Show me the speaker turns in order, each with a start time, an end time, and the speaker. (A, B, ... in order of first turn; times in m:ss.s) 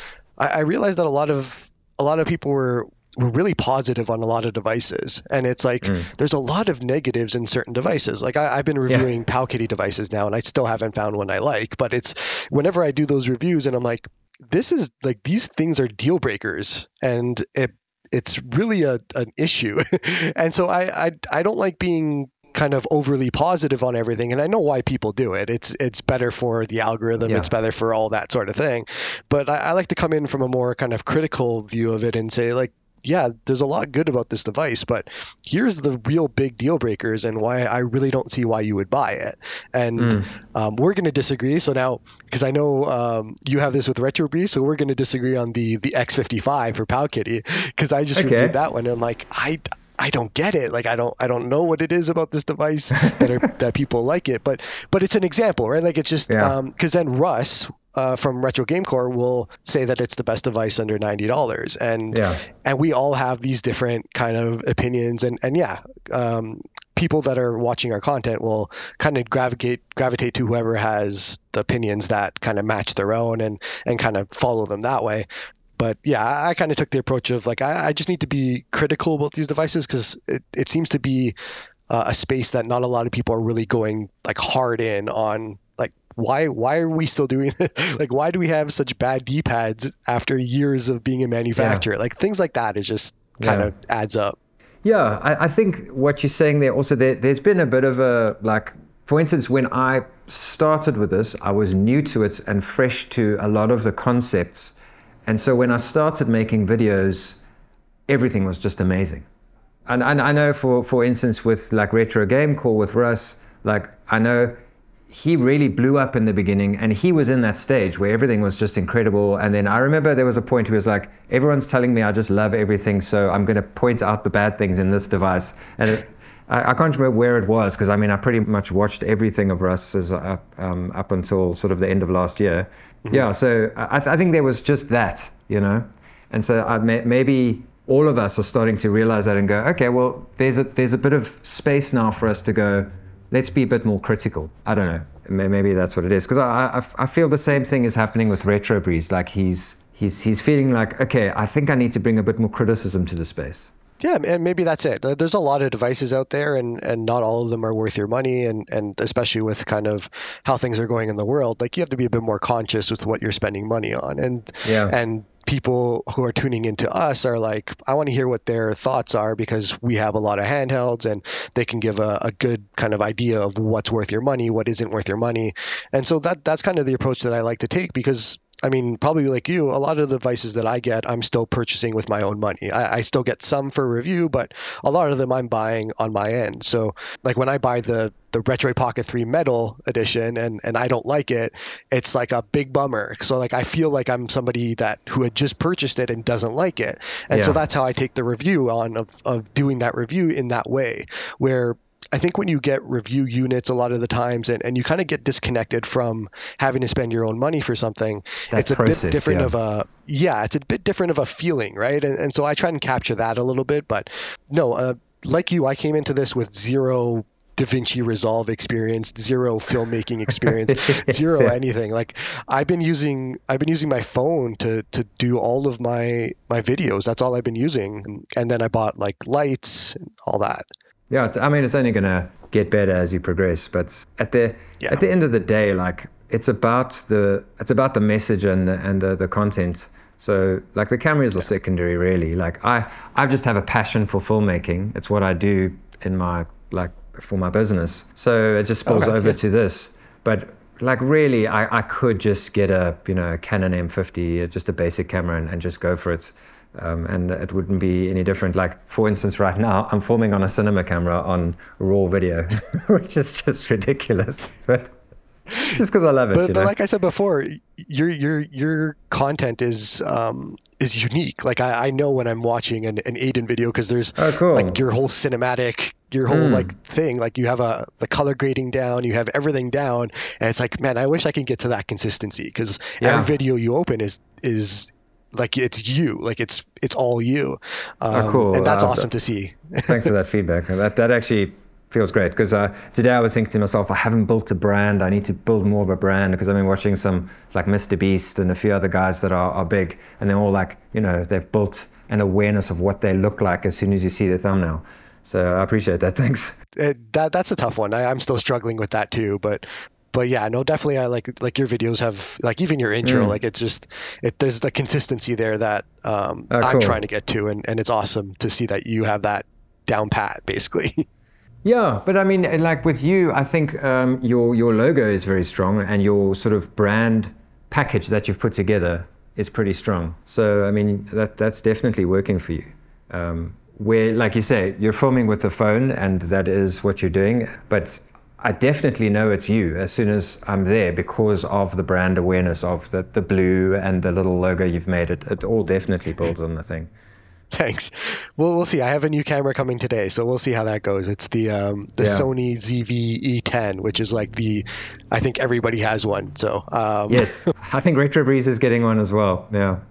0:00.4-1:15.3 A
0:05.8-0:06.1 B
0:27.2-0:27.5 B
0:40.0-0:40.3 B
0:48.2-0:48.6 B
0:56.3-0:56.5 B
1:02.1-1:02.4 B
1:15.8-1:21.4 A
1:21.9-1:34.4 A
1:31.6-1:31.8 B
1:33.4-1:33.7 B
1:34.8-1:47.4 B
1:48.1-1:49.3 B
1:49.9-1:54.6 B
1:55.1-2:33.7 B
2:34.0-3:50.7 A
2:44.6-2:45.0 B
3:17.3-3:17.6 B
3:28.5-3:29.5 B
3:40.3-3:41.6 B
3:51.1-4:24.9 B
4:08.9-4:09.4 A
4:25.5-4:26.7 B
4:26.3-4:50.1 A
4:34.2-4:34.8 B
4:36.3-4:36.7 B
4:43.0-4:43.3 B
4:48.1-4:49.1 B
4:49.9-5:06.6 B
5:06.8-5:21.0 A
5:13.0-5:13.4 B
5:16.5-5:17.0 B
5:21.6-5:46.9 B
5:47.5-5:57.5 A
5:52.0-5:52.3 B
5:57.1-5:59.8 B